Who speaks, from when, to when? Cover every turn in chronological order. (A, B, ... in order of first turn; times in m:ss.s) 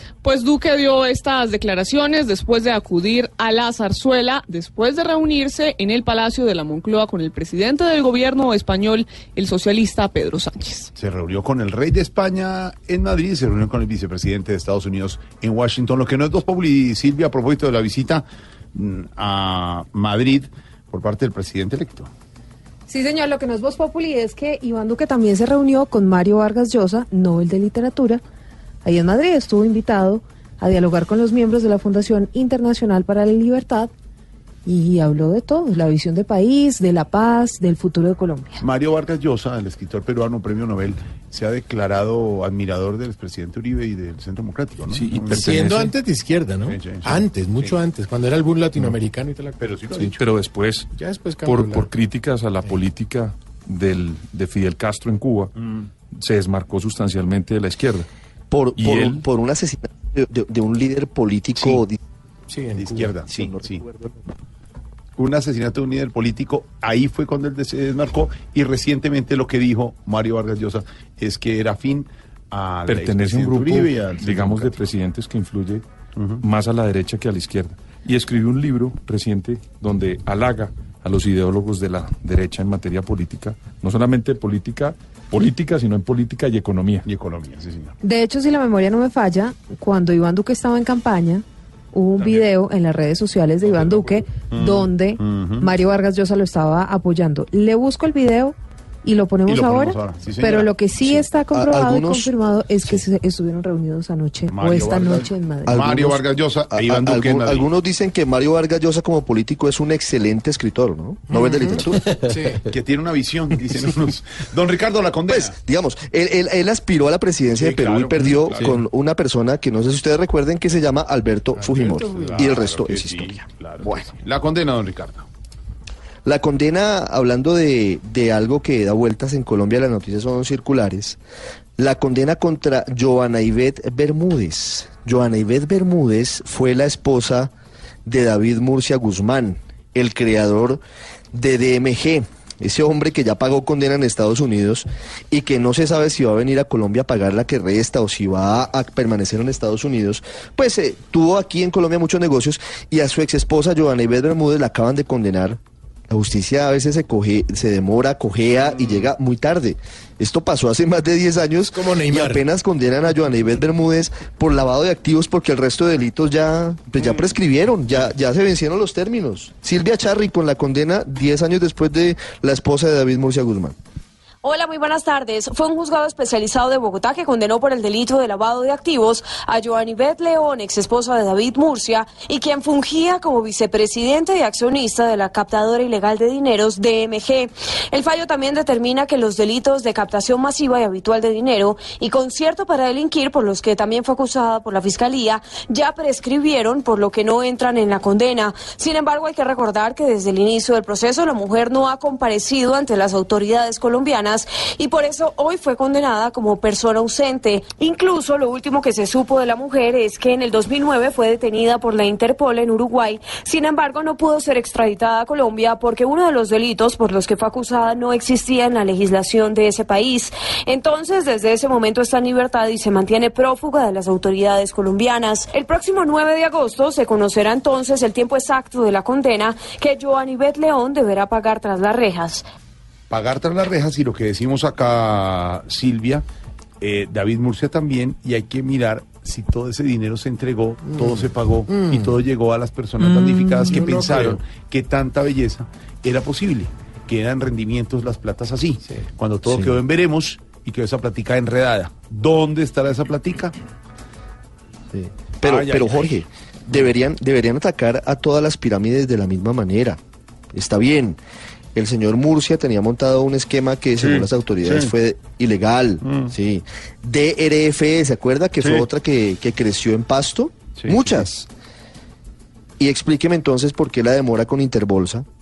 0:00.2-0:10.9 A
0:11.0-0:22.1 B
0:22.9-0:28.2 C
0:28.8-0:33.9 C
0:34.7-0:38.6 C
0:38.6-0:45.4 B
0:44.9-0:45.9 D
0:45.3-0:50.0 E
0:46.7-0:47.8 B
0:49.6-0:50.1 B
0:50.0-0:50.9 D
0:50.9-0:51.9 E
0:51.4-0:55.5 D
0:55.6-0:55.9 B
0:56.1-0:58.1 D
0:58.5-1:02.0 F
0:58.8-0:59.2 D
1:02.5-1:03.5 E
1:02.8-1:03.8 B
1:05.2-1:14.8 B
1:12.9-1:15.8 D
1:16.2-1:16.4 B
1:16.4-1:27.1 D
1:27.1-1:28.0 B
1:28.0-1:45.9 C
1:32.2-1:32.4 B
1:33.6-1:35.7 B
1:39.4-1:40.7 B
1:41.0-1:42.3 F
1:44.5-1:47.7 B
1:45.7-1:46.2 F
1:46.7-1:52.0 F
1:51.3-1:52.6 E
1:52.7-1:55.5 B
1:55.3-2:04.1 F
1:57.5-1:58.8 B
2:01.6-2:02.6 E
2:02.0-2:05.3 B
2:06.3-2:11.2 F
2:11.8-2:17.5 F
2:18.0-2:20.8 F
2:21.3-2:53.8 F
2:41.7-2:42.4 E
2:54.4-3:52.4 G
3:53.1-3:56.2 B
3:56.8-4:13.6 B
4:03.0-4:04.4 E
4:14.9-4:20.0 F
4:15.4-4:16.0 B
4:20.5-4:21.2 F
4:21.8-4:31.4 F
4:24.0-4:24.9 B
4:26.0-4:26.3 B
4:28.6-4:28.8 B
4:30.8-4:31.3 B
4:32.8-4:35.3 F